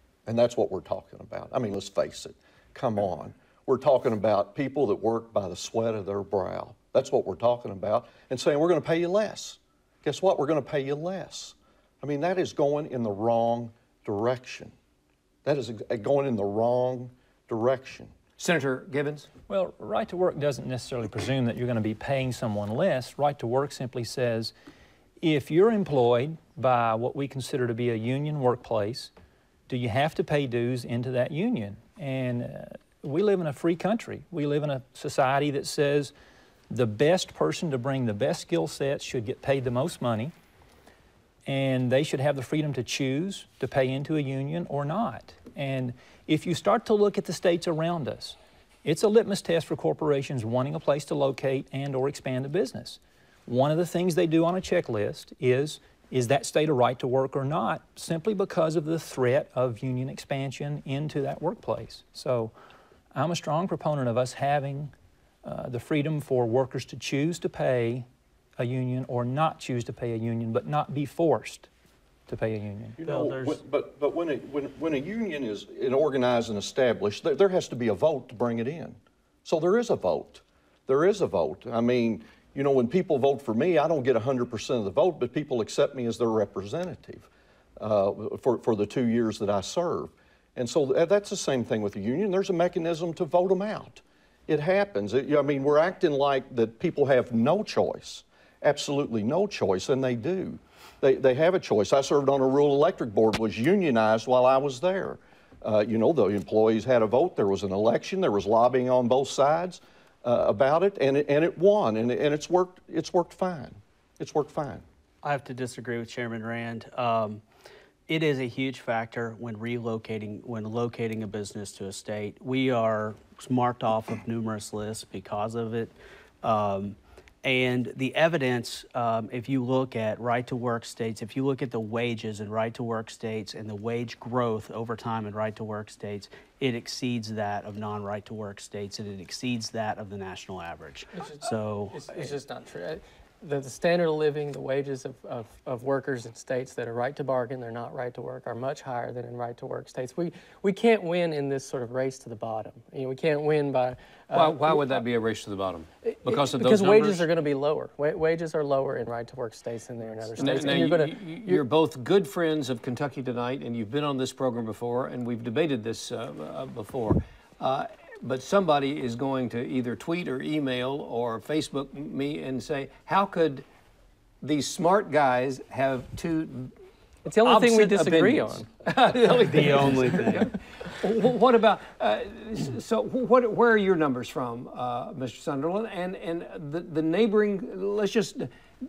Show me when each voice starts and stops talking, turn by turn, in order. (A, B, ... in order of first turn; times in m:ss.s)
0:00.3-0:14.7 A
0:15.4-0:18.1 A
0:18.4-0:19.3 B
0:19.5-0:24.5 C
0:25.2-0:29.1 C
0:29.7-0:36.1 C
0:36.7-0:40.3 C
0:41.5-1:02.5 C
1:03.1-1:04.9 C
1:05.4-1:08.1 C
1:08.6-1:11.7 C
1:12.3-1:13.0 C
1:13.0-1:54.8 A
1:13.0-1:13.6 D
1:55.2-1:57.4 D
1:58.1-2:22.3 D
2:21.2-2:34.9 E
2:34.3-2:37.3 B
2:36.1-2:41.6 E
2:40.4-2:53.7 B
2:54.4-2:56.7 B
2:57.2-2:58.7 E
2:57.4-3:08.5 B
2:59.4-3:00.5 D